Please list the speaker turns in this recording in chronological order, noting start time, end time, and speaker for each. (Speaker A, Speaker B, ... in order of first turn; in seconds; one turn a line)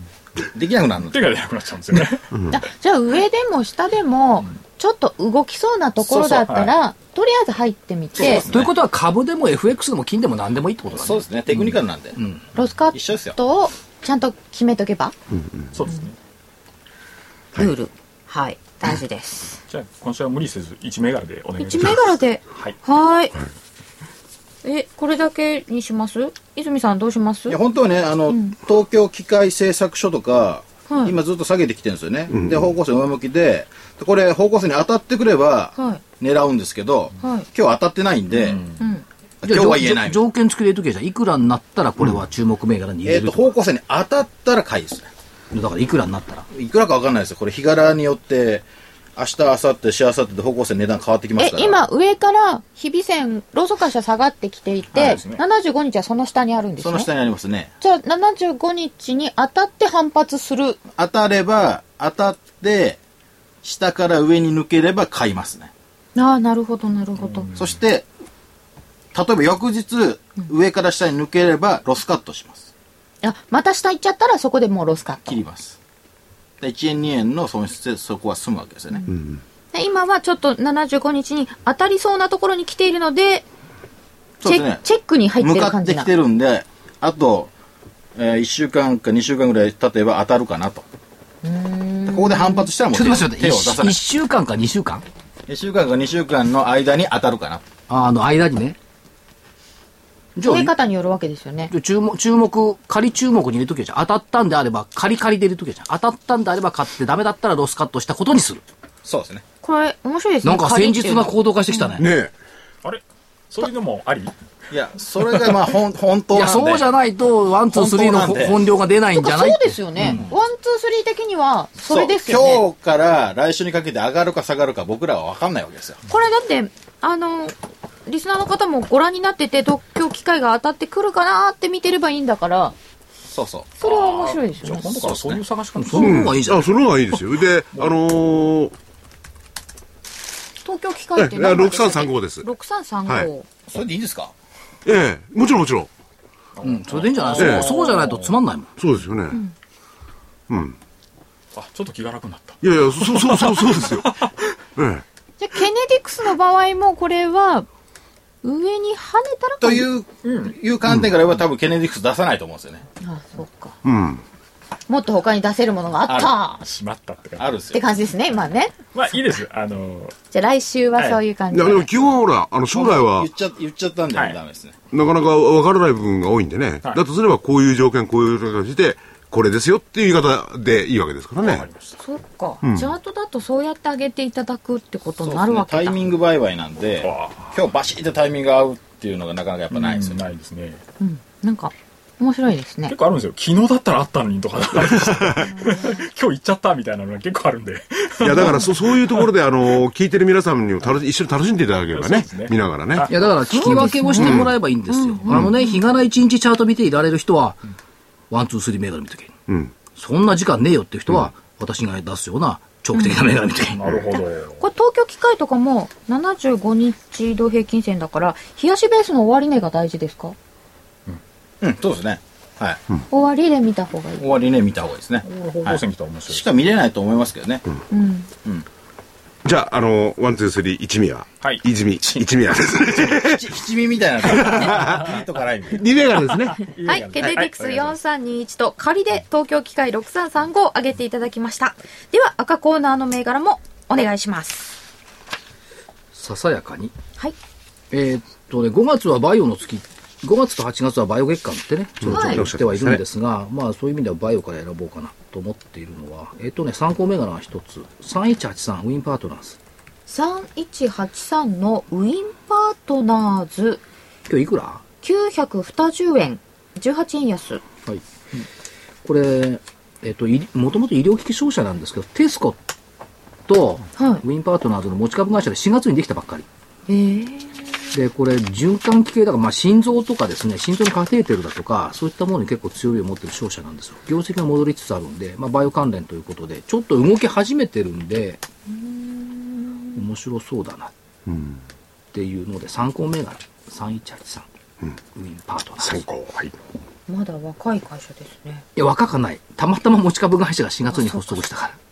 Speaker A: 0.5-1.2
Speaker B: 1.1-2.3
Speaker C: 2.3-2.6
Speaker D: 2.5-8.5
Speaker A: 6.0-6.7
Speaker B: 6.5-6.7
Speaker E: 8.2-12.4
Speaker B: 8.2-8.7
Speaker A: 10.9-12.2
Speaker D: 12.5-15.1
Speaker A: 12.9-13.4
Speaker C: 15.3-15.7
Speaker B: 15.7-16.1
Speaker D: 17.5-19.6
Speaker B: 19.7-22.8
Speaker D: 21.6-23.4
Speaker D: 24.6-27.6
Speaker A: 27.5-38.7
Speaker D: 28.3-28.5
Speaker D: 30.9-31.2
Speaker C: 32.3-32.7
Speaker D: 35.8-36.0
Speaker D: 37.2-37.5
Speaker B: 38.3-38.7
Speaker D: 38.8-39.0
Speaker A: 39.4-40.2
Speaker E: 39.4-43.5
Speaker A: 43.0-45.1
Speaker E: 45.5-46.5
Speaker A: 46.5-51.9
Speaker D: 51.4-57.1
Speaker B: 54.9-55.4
Speaker A: 56.8-57.7
Speaker D: 57.8-60.8
Speaker A: 60.9-63.0
Speaker A: 63.6-65.7
Speaker D: 66.2-67.6
Speaker B: 67.2-67.7
Speaker A: 67.5-68.0
Speaker A: 69.1-72.7
Speaker D: 73.2-75.4
Speaker A: 75.3-75.8
Speaker A: 76.6-79.0
Speaker C: 79.1-79.4
Speaker D: 79.7-83.4
Speaker D: 84.4-86.1
Speaker A: 84.4-84.8
Speaker A: 85.4-87.5
Speaker A: 88.2-90.8
Speaker D: 91.4-92.7
Speaker A: 92.1-94.0
Speaker E: 92.9-95.0
Speaker A: 95.5-97.6
Speaker E: 97.9-98.8
Speaker E: 100.3-100.7
Speaker D: 100.4-101.7
Speaker E: 101.7-108.6
Speaker A: 109.0-109.4
Speaker D: 109.6-111.8
Speaker E: 110.4-112.1
Speaker C: 112.0-112.3
Speaker B: 112.8-114.3
Speaker A: 114.7-116.9
Speaker B: 115.0-115.7
Speaker E: 116.3-120.3
Speaker A: 117.7-118.6
Speaker D: 119.1-122.6
Speaker A: 121.9-126.0
Speaker D: 126.1-127.5
Speaker D: 128.1-132.7
Speaker A: 133.3-133.7
Speaker D: 133.8-135.1
Speaker B: 133.8-136.2
Speaker A: 135.0-135.4
Speaker E: 135.7-136.8
Speaker C: 136.0-138.7
Speaker D: 140.6-143.5
Speaker C: 141.2-142.5
Speaker A: 143.7-144.3
Speaker C: 144.8-145.9
Speaker E: 146.6-148.7
Speaker B: 147.2-148.1
Speaker C: 147.4-147.7
Speaker C: 148.8-149.4
Speaker C: 150.5-150.8
Speaker B: 151.5-154.4
Speaker C: 152.6-154.2
Speaker C: 154.8-155.0
Speaker D: 155.4-157.7
Speaker D: 158.4-159.9
Speaker A: 159.6-162.8
Speaker B: 160.2-160.5
Speaker C: 160.8-161.1
Speaker D: 163.0-163.7
Speaker C: 163.8-164.2
Speaker D: 164.9-166.6
Speaker A: 166.1-166.3
Speaker B: 166.6-167.5
Speaker A: 167.4-167.8
Speaker D: 167.7-168.7
Speaker B: 168.9-170.1
Speaker D: 170.3-172.0
Speaker C: 171.5-173.3
Speaker A: 172.7-174.7
Speaker B: 174.1-174.4
Speaker C: 174.9-181.7
Speaker B: 181.4-181.9
Speaker D: 182.0-186.1
Speaker C: 182.6-182.9
Speaker A: 185.2-190.2
Speaker B: 187.0-187.6
Speaker B: 189.7-190.8
Speaker D: 191.0-192.9
Speaker B: 192.9-199.3
Speaker C: 195.0-195.3
Speaker D: 195.4-196.0
Speaker C: 198.2-203.1
Speaker B: 201.9-203.9
Speaker E: 203.1-207.6
Speaker D: 203.5-205.8
Speaker C: 204.2-204.5
Speaker E: 208.3-209.3
Speaker C: 209.5-209.7
Speaker E: 209.9-213.8
Speaker D: 212.9-213.2
Speaker B: 213.7-214.6
Speaker D: 214.2-220.3
Speaker A: 221.6-222.8
Speaker D: 223.1-224.3
Speaker A: 224.2-227.7
Speaker B: 225.2-226.4
Speaker D: 227.9-228.3
Speaker C: 229.4-233.5
Speaker B: 231.4-232.3
Speaker A: 232.9-235.8
Speaker C: 234.2-235.1
Speaker B: 234.8-235.1
Speaker C: 235.7-236.6
Speaker B: 236.5-238.0
Speaker D: 236.8-244.8
Speaker E: 246.1-246.9
Speaker E: 247.9-259.6
Speaker C: 252.0-253.0
Speaker D: 252.0-252.5
Speaker D: 260.1-263.8
Speaker E: 264.3-264.8
Speaker D: 265.0-267.6
Speaker E: 267.9-268.4
Speaker E: 269.0-272.6
Speaker E: 273.5-276.5
Speaker D: 274.0-274.2
Speaker D: 276.9-277.6
Speaker E: 277.9-288.4
Speaker D: 288.7-290.0
Speaker E: 289.9-290.9
Speaker C: 291.3-291.6
Speaker E: 292.1-294.5
Speaker E: 295.1-296.0
Speaker C: 295.8-296.5
Speaker D: 297.1-298.6
Speaker E: 298.8-301.8
Speaker D: 300.9-301.4